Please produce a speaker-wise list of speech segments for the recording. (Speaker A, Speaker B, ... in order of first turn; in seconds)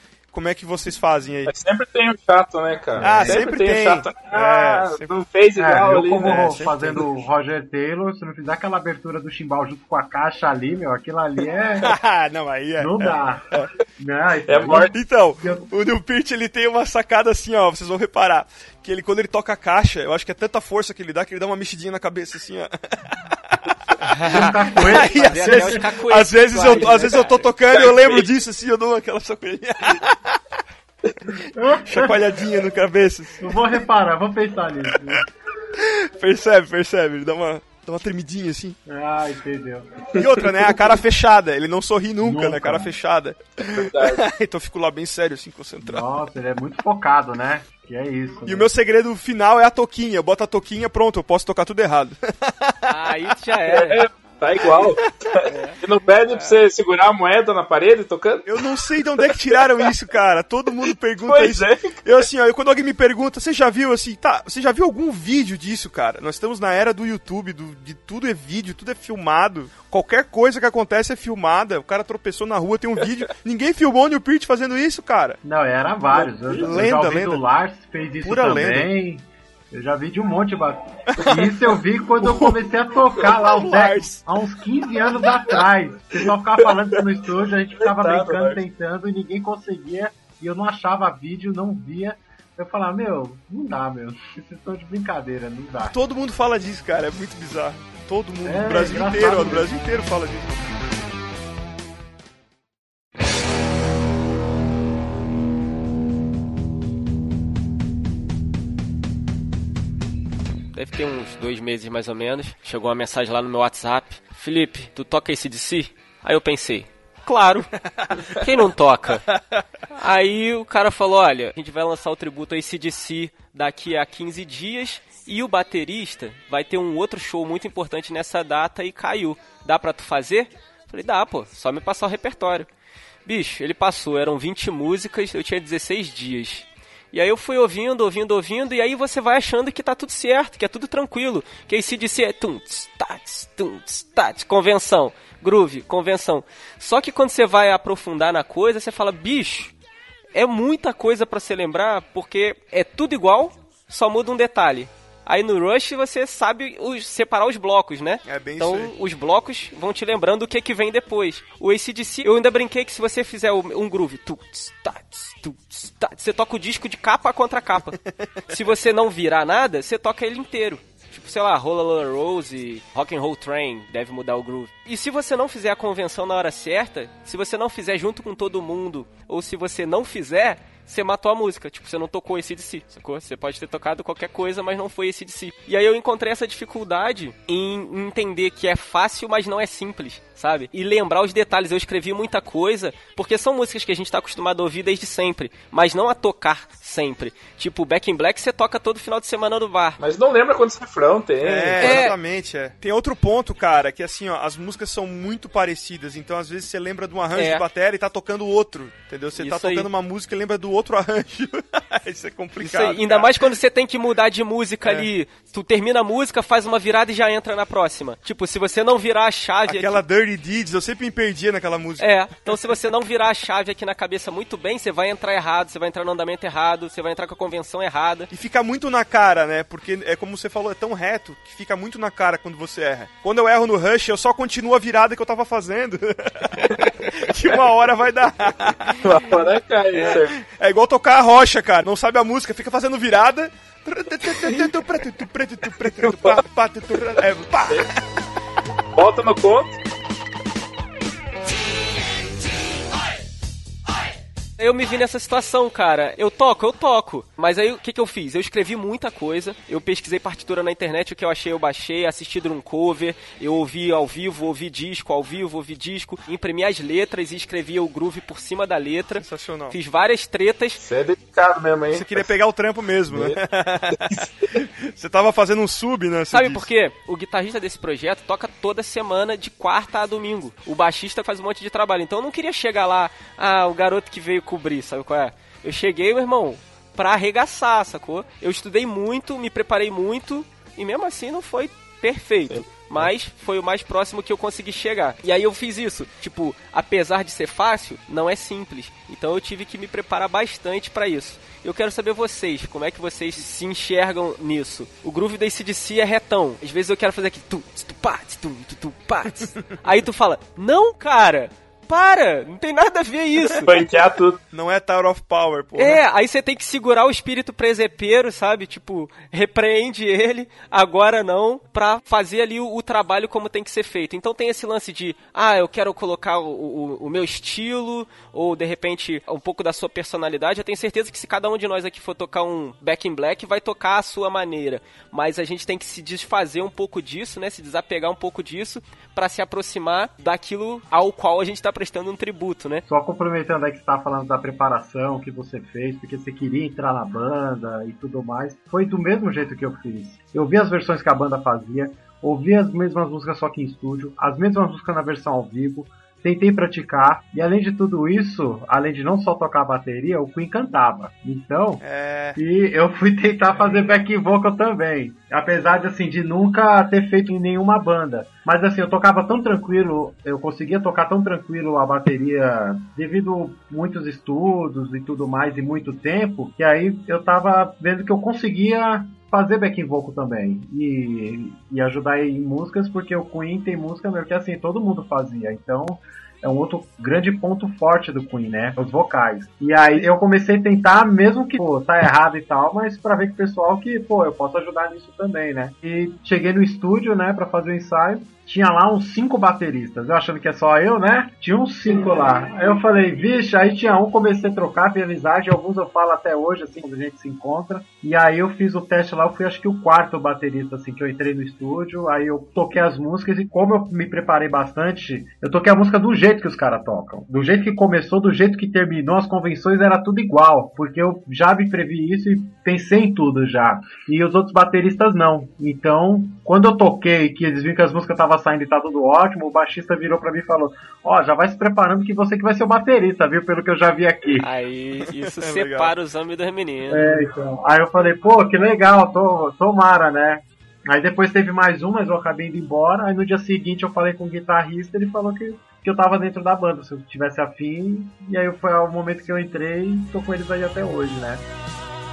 Speaker A: 0.3-1.5, 3.0-5.1, 5.8-7.1, 11.8-13.7, 14.9-30.4, 31.3-33.7, 35.1-38.8, 40.2-46.0, 48.5-52.9, 58.5-75.4, 76.6-77.4, 78.2-78.9, 81.1-81.5, 82.2-82.6, 83.2-84.2, 95.8-100.6, 158.2-158.9, 201.4-213.3, 214.8-215.1, 219.7-222.1, 228.3-239.3, 240.0-247.9, 269.1-269.8, 271.9-276.7, 314.5-316.0, 361.8-362.4, 435.3-435.9
Speaker B: 1.4-7.0, 14.5-14.9, 27.7-28.2, 43.7-44.2, 53.7-59.9, 60.9-62.0, 76.2-76.7, 86.6-87.0, 87.8-88.6, 200.0-202.1, 239.0-240.4, 245.9-246.4, 248.9-249.8, 270.8-272.3, 273.1-273.4, 273.9-274.3, 313.6-314.4
Speaker C: 3.0-3.5, 5.6-11.9, 12.8-15.7, 24.3-25.9, 31.5-32.2, 33.4-35.2, 38.9-40.2, 42.2-42.9, 45.8-48.7, 75.4-95.9, 98.4-99.7, 342.9-361.8, 362.4-434.5, 436.9-451.4
Speaker D: 24.1-27.5, 52.9-54.1, 55.4-56.6, 110.7-117.7, 118.3-119.2, 119.9-132.7, 133.2-149.7, 150.3-168.0, 168.5-200.0, 201.8-202.1, 207.3-207.6, 209.3-209.9, 212.6-220.0, 222.0-228.3, 254.6-270.8, 276.3-313.7, 315.8-342.8, 434.4-437.2